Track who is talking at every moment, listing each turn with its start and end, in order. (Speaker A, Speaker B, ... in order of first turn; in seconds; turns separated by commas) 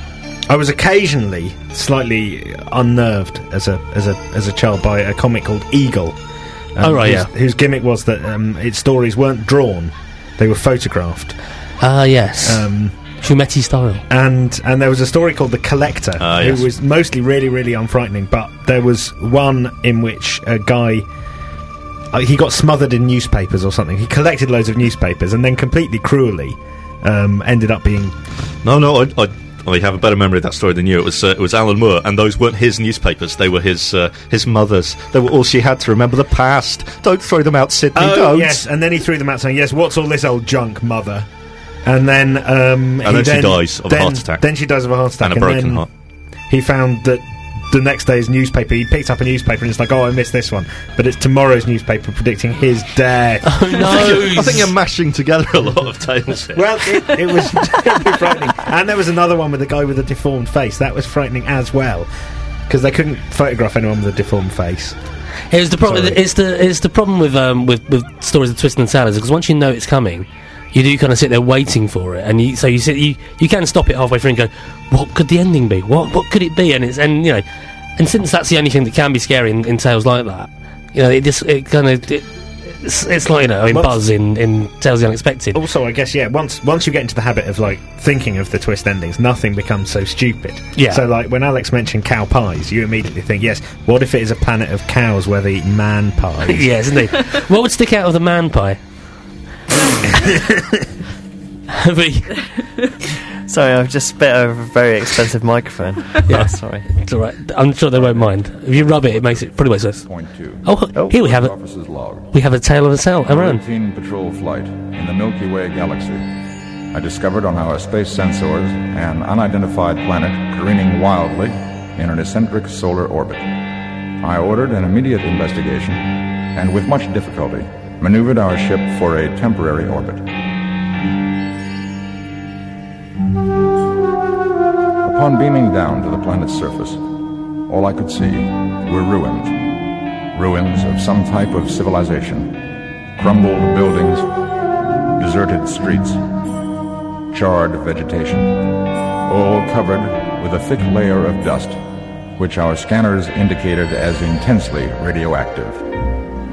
Speaker A: 0.5-6.2, Speaker A: 6.7-11.3, Speaker B: 6.8-7.3, Speaker B: 11.8-12.6, Speaker A: 12.4-12.9, Speaker B: 13.2-14.0, Speaker A: 14.1-21.1, Speaker C: 16.2-16.7, Speaker A: 22.1-28.1, Speaker C: 28.6-38.6, Speaker A: 37.9-41.3, Speaker A: 41.8-45.9, Speaker C: 43.0-44.4, Speaker C: 45.2-45.9, Speaker A: 46.5-53.7, Speaker B: 53.4-54.7, Speaker C: 53.8-56.8, Speaker A: 56.5-62.1, Speaker A: 62.7-65.0, Speaker B: 65.5-77.4, Speaker A: 65.8-66.2, Speaker B: 78.0-85.6, Speaker A: 83.7-84.0, Speaker A: 85.5-96.7, Speaker B: 90.8-91.0, Speaker B: 96.5-98.8, Speaker B: 101.7-102.4, Speaker D: 103.5-106.9, Speaker B: 106.3-110.0, Speaker E: 107.9-112.3, Speaker B: 110.6-111.5, Speaker B: 112.3-113.6, Speaker E: 113.3-116.2, Speaker E: 116.9-123.5, Speaker E: 124.2-130.2, Speaker E: 135.0-137.0, Speaker E: 137.7-139.7, Speaker E: 140.3-144.3, Speaker E: 145.2-146.2, Speaker E: 147.3-151.8, Speaker E: 152.3-155.9